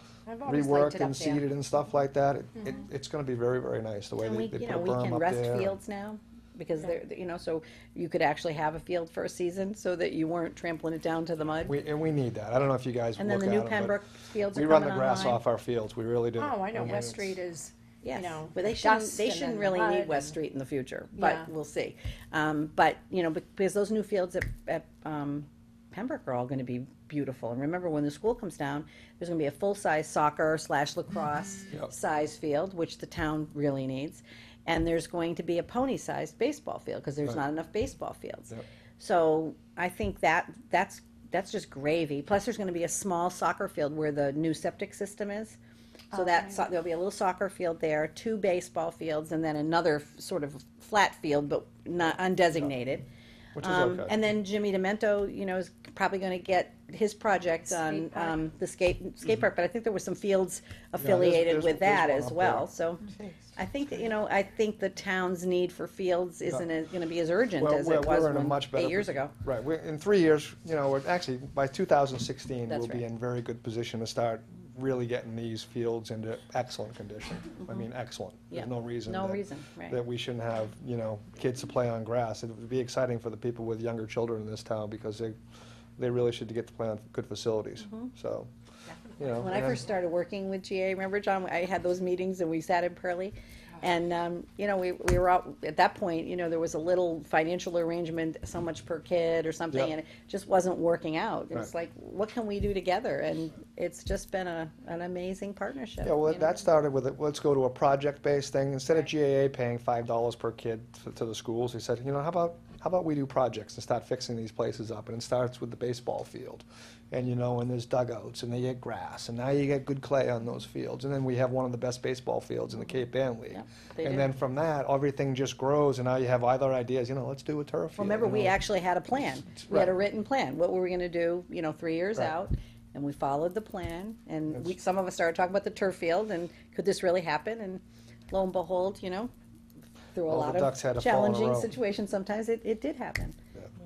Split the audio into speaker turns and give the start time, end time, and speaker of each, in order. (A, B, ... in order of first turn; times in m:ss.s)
0:00.3-0:01.4 A
0:00.4-0:05.7 B
0:04.2-0:11.8 C
0:11.6-0:14.0 B
0:13.2-0:15.4 C
0:14.5-0:17.4 B
0:16.4-0:20.4 A
0:18.0-0:45.6 C
0:21.2-0:21.5 A
0:46.1-0:46.6 A
0:46.1-0:53.0 C
0:53.5-0:54.1 B
0:53.6-1:09.3 C
0:57.6-0:58.4 A
1:01.0-1:02.7 B
1:07.6-1:25.3 B
1:12.7-1:13.0 C
1:18.5-1:20.0 C
1:26.0-1:28.5 B
1:27.8-1:28.1 C
1:29.2-1:29.8 B
1:29.3-1:46.6 C
1:46.0-2:08.6 B
2:03.5-2:04.3 C
2:08.0-2:19.3 C
2:09.6-2:09.9 B
2:20.1-2:23.4 C
2:20.3-2:21.7 B